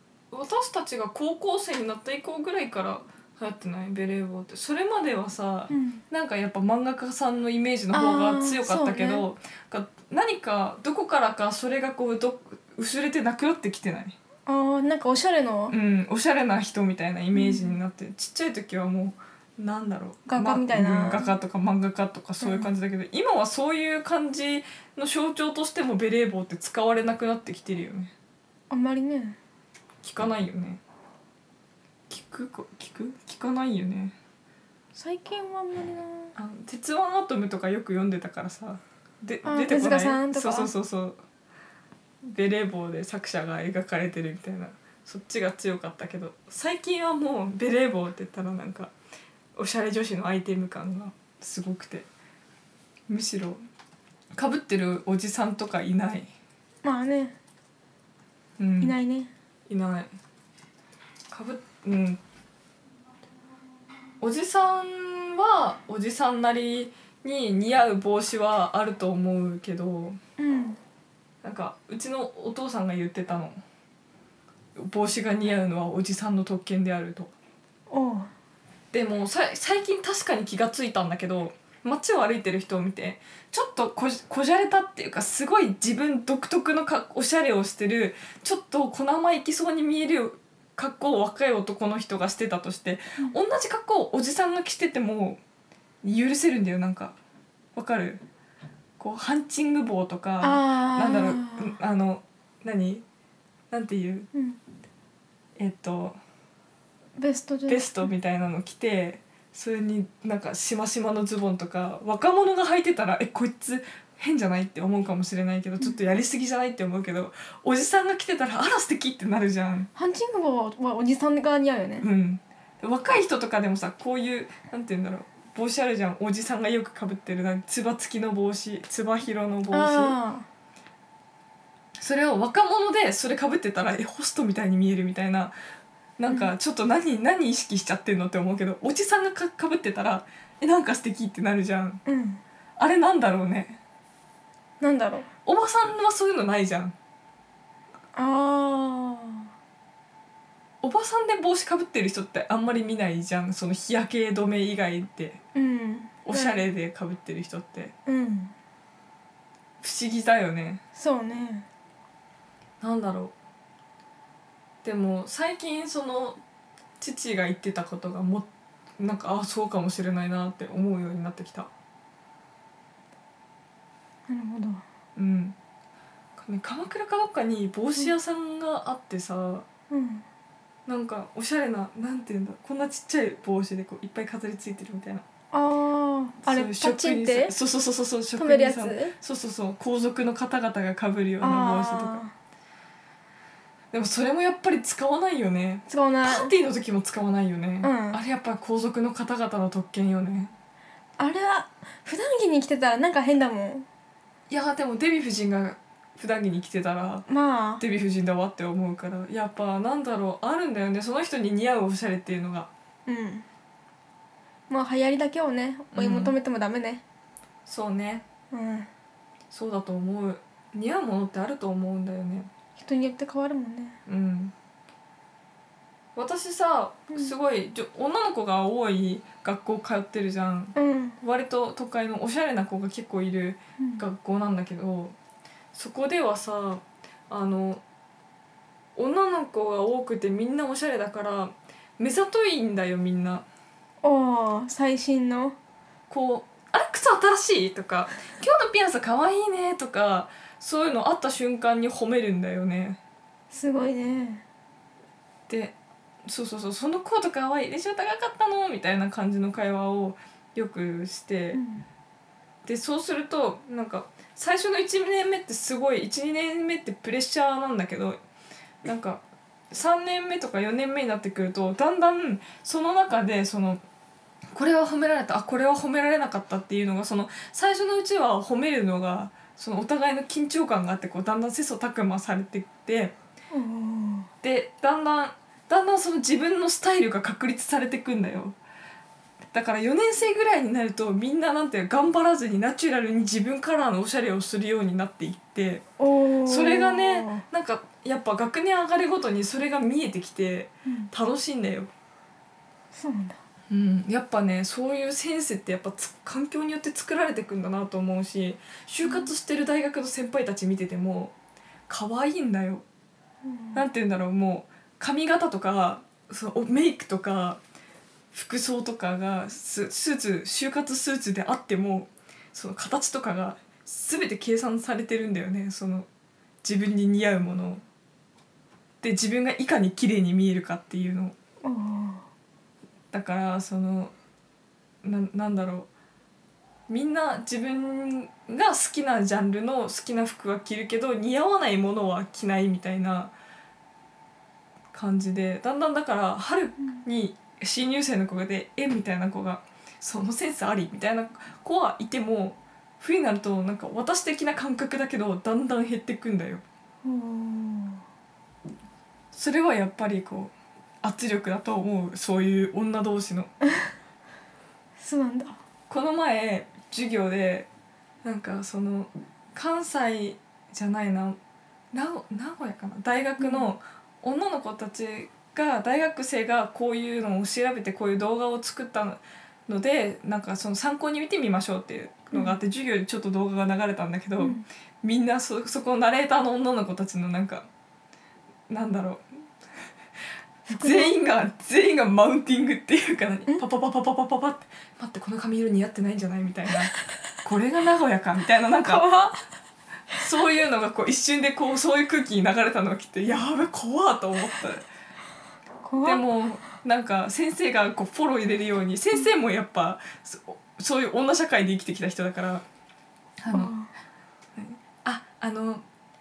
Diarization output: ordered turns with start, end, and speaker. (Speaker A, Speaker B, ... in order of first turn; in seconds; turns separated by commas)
Speaker A: 0.3-14.2, Speaker B: 5.7-6.0, Speaker B: 7.9-9.2, Speaker B: 14.5-15.8, Speaker A: 15.7-28.1, Speaker B: 17.3-17.8, Speaker B: 20.3-21.4, Speaker B: 22.4-22.7, Speaker B: 28.7-29.4, Speaker A: 30.0-30.8, Speaker A: 32.1-34.1, Speaker B: 35.0-36.3, Speaker A: 36.4-41.2, Speaker B: 39.5-40.7, Speaker A: 42.2-48.9, Speaker A: 49.6-52.1, Speaker A: 53.1-53.6, Speaker A: 54.4-56.3, Speaker B: 56.8-57.4, Speaker A: 58.6-59.0, Speaker B: 58.8-59.3, Speaker A: 59.7-60.1, Speaker A: 61.3-62.2, Speaker A: 64.2-70.2, Speaker B: 70.4-70.8, Speaker A: 71.4-73.6, Speaker A: 74.8-77.3, Speaker B: 77.9-78.3, Speaker A: 78.9-95.4, Speaker A: 96.0-97.2, Speaker A: 97.8-98.2, Speaker A: 99.0-103.0, Speaker B: 100.4-101.8, Speaker A: 103.7-104.3, Speaker B: 104.3-104.6, Speaker A: 105.6-106.2, Speaker B: 107.2-108.1, Speaker A: 107.7-119.9, Speaker B: 120.0-122.1, Speaker A: 122.0-130.2, Speaker B: 129.7-130.5, Speaker A: 132.0-135.5, Speaker A: 136.2-142.0, Speaker B: 142.1-142.4, Speaker A: 142.8-143.8, Speaker B: 144.8-145.3, Speaker A: 145.5-146.9, Speaker B: 148.2-149.5, Speaker A: 150.8-155.4, Speaker B: 155.6-156.7, Speaker A: 156.3-157.9, Speaker B: 158.1-158.5, Speaker A: 159.8-160.8, Speaker B: 161.0-161.7, Speaker A: 162.8-163.3, Speaker A: 164.8-166.4, Speaker A: 167.0-168.5, Speaker A: 169.0-171.7, Speaker B: 174.3-174.8, Speaker A: 175.2-175.6, Speaker A: 176.4-179.7, Speaker B: 179.9-180.2, Speaker A: 180.9-185.2, Speaker B: 185.5-187.5, Speaker A: 186.4-192.2, Speaker B: 188.4-189.1, Speaker B: 191.4-192.3, Speaker A: 193.9-200.5, Speaker B: 195.9-196.6, Speaker B: 197.8-198.2, Speaker B: 201.2-203.9, Speaker A: 204.5-207.3, Speaker B: 207.3-207.8, Speaker A: 207.8-212.7, Speaker B: 213.1-213.5, Speaker B: 214.7-217.0, Speaker A: 215.9-216.3, Speaker A: 217.7-218.2, Speaker B: 218.5-218.9, Speaker A: 219.5-222.5, Speaker B: 222.8-224.0, Speaker A: 224.1-224.5, Speaker A: 226.2-235.2, Speaker B: 230.8-231.2, Speaker B: 233.8-234.0, Speaker A: 235.7-237.8, Speaker A: 239.0-243.4, Speaker B: 244.0-245.6, Speaker A: 246.1-253.0, Speaker B: 253.5-254.4, Speaker A: 255.5-261.6, Speaker B: 261.5-261.9, Speaker A: 262.7-268.2, Speaker A: 268.8-273.8, Speaker A: 274.5-283.1, Speaker B: 283.5-284.3, Speaker A: 284.4-288.6, Speaker A: 289.5-295.8, Speaker B: 296.0-297.4, Speaker A: 296.4-301.9, Speaker B: 302.9-303.4, Speaker A: 303.7-311.3, Speaker B: 309.1-309.3, Speaker A: 311.9-312.8, Speaker B: 313.4-313.8, Speaker A: 313.7-317.6, Speaker A: 318.3-326.1, Speaker A: 326.6-327.8, Speaker A: 329.0-331.4, Speaker B: 331.6-332.3, Speaker A: 333.1-334.1, Speaker A: 335.0-335.9, Speaker A: 336.9-343.3, Speaker A: 344.9-356.6, Speaker B: 357.0-358.0, Speaker A: 359.3-363.5, Speaker B: 365.0-365.6, Speaker A: 365.9-367.7, Speaker A: 368.2-371.4, Speaker A: 371.9-387.7, Speaker B: 373.4-373.7, Speaker B: 382.3-382.6, Speaker B: 384.4-384.7, Speaker A: 388.7-389.3, Speaker B: 390.7-391.2, Speaker A: 390.7-396.9, Speaker A: 397.4-399.1, Speaker B: 398.9-399.4, Speaker A: 400.1-404.9, Speaker B: 405.8-406.3, Speaker A: 406.0-412.6, Speaker A: 413.4-413.7, Speaker B: 413.5-413.9, Speaker A: 414.6-415.8